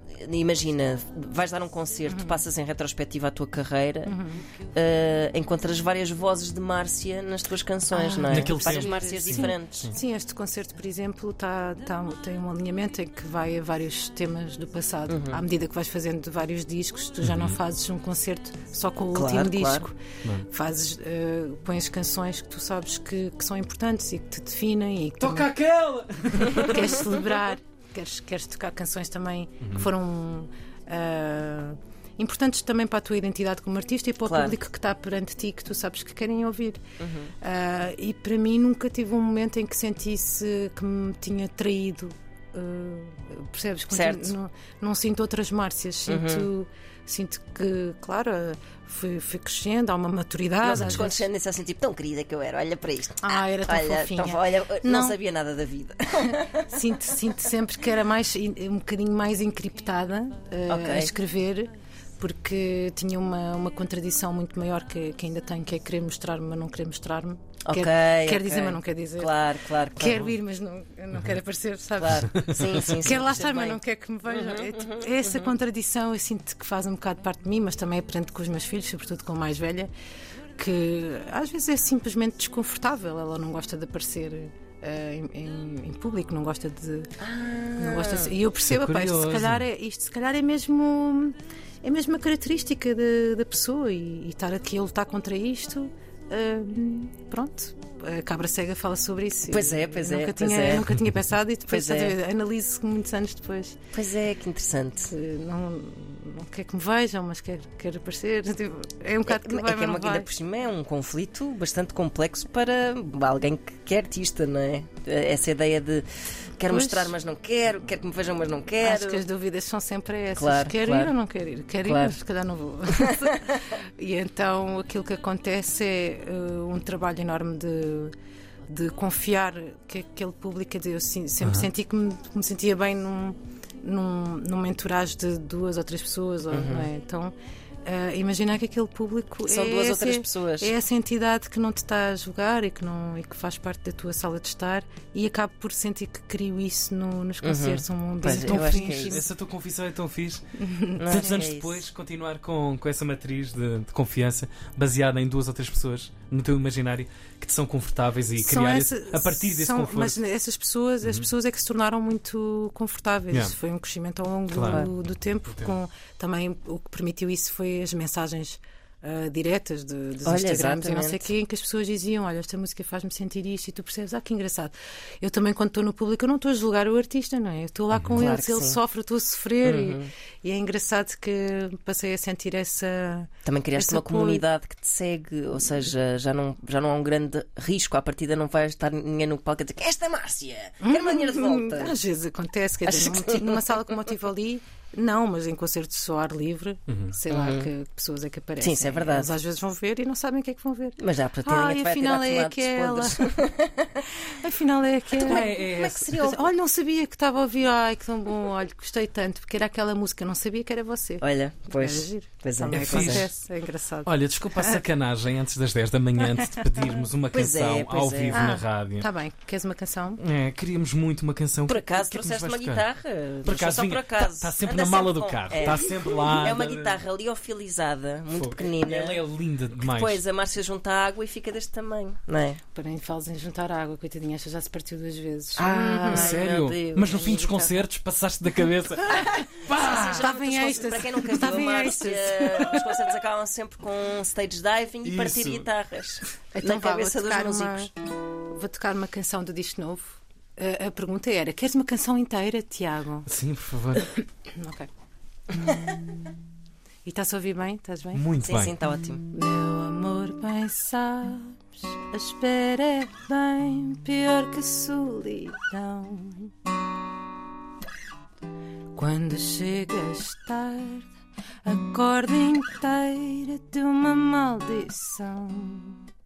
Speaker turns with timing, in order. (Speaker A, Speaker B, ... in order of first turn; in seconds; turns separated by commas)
Speaker A: 0.1-4.1, Speaker B: 2.1-2.4, Speaker B: 4.0-4.4, Speaker A: 4.7-9.9, Speaker B: 7.9-25.5, Speaker C: 8.3-9.9, Speaker A: 15.1-15.4, Speaker C: 17.2-17.5, Speaker A: 19.1-19.9, Speaker C: 25.2-27.1, Speaker B: 26.4-36.8, Speaker C: 29.6-29.9, Speaker A: 34.2-34.6, Speaker A: 37.0-37.3, Speaker B: 37.4-51.2, Speaker A: 43.9-44.3, Speaker A: 46.1-46.5, Speaker A: 50.6-56.6, Speaker B: 53.2-55.2, Speaker B: 56.6-69.3, Speaker A: 60.7-61.1, Speaker A: 67.7-70.2, Speaker B: 69.9-79.9, Speaker A: 72.0-75.5, Speaker C: 72.3-72.7, Speaker B: 80.5-87.1, Speaker A: 87.2-88.3, Speaker B: 87.8-103.8, Speaker C: 88.7-89.6, Speaker A: 99.5-100.9, Speaker A: 101.7-102.2, Speaker A: 103.9-105.1, Speaker B: 105.1-110.3, Speaker A: 109.2-116.1, Speaker A: 116.6-119.2, Speaker B: 116.7-117.1, Speaker B: 118.8-128.1, Speaker A: 120.3-121.1, Speaker A: 121.8-122.2, Speaker B: 128.7-149.2, Speaker C: 131.4-131.7, Speaker A: 136.5-136.9, Speaker A: 139.4-140.7, Speaker A: 147.4-149.2, Speaker C: 148.2-150.4, Speaker B: 150.6-151.3, Speaker A: 151.0-151.8, Speaker C: 151.1-160.2, Speaker B: 158.4-184.4, Speaker C: 164.5-164.9, Speaker A: 170.2-171.3, Speaker A: 178.2-178.8, Speaker A: 179.6-180.1, Speaker A: 183.4-192.0, Speaker B: 190.8-203.5, Speaker A: 192.8-193.8, Speaker C: 196.9-197.1, Speaker A: 197.3-197.7, Speaker A: 198.6-199.3, Speaker A: 201.0-204.1, Speaker B: 204.2-211.2, Speaker A: 205.2-206.4, Speaker C: 205.2-206.2, Speaker A: 211.2-213.2, Speaker B: 211.8-214.8, Speaker C: 212.7-213.3, Speaker C: 214.1-219.1, Speaker B: 216.2-216.9, Speaker A: 217.3-218.5, Speaker B: 218.3-220.2, Speaker C: 220.2-222.8, Speaker A: 221.7-229.2, Speaker C: 223.4-227.0, Speaker C: 228.3-230.2, Speaker A: 229.8-232.6, Speaker B: 232.7-236.4, Speaker A: 235.6-237.8, Speaker C: 235.8-240.3, Speaker B: 239.1-242.9, Speaker A: 239.1-247.9, Speaker C: 245.0-245.6, Speaker B: 246.5-247.9, Speaker B: 248.5-253.3, Speaker C: 253.3-254.1, Speaker B: 254.0-254.9, Speaker B: 255.6-256.0, Speaker B: 257.0-258.3, Speaker C: 258.1-258.8, Speaker A: 258.4-259.2, Speaker B: 259.3-266.5, Speaker B: 268.9-271.1, Speaker B: 271.6-276.0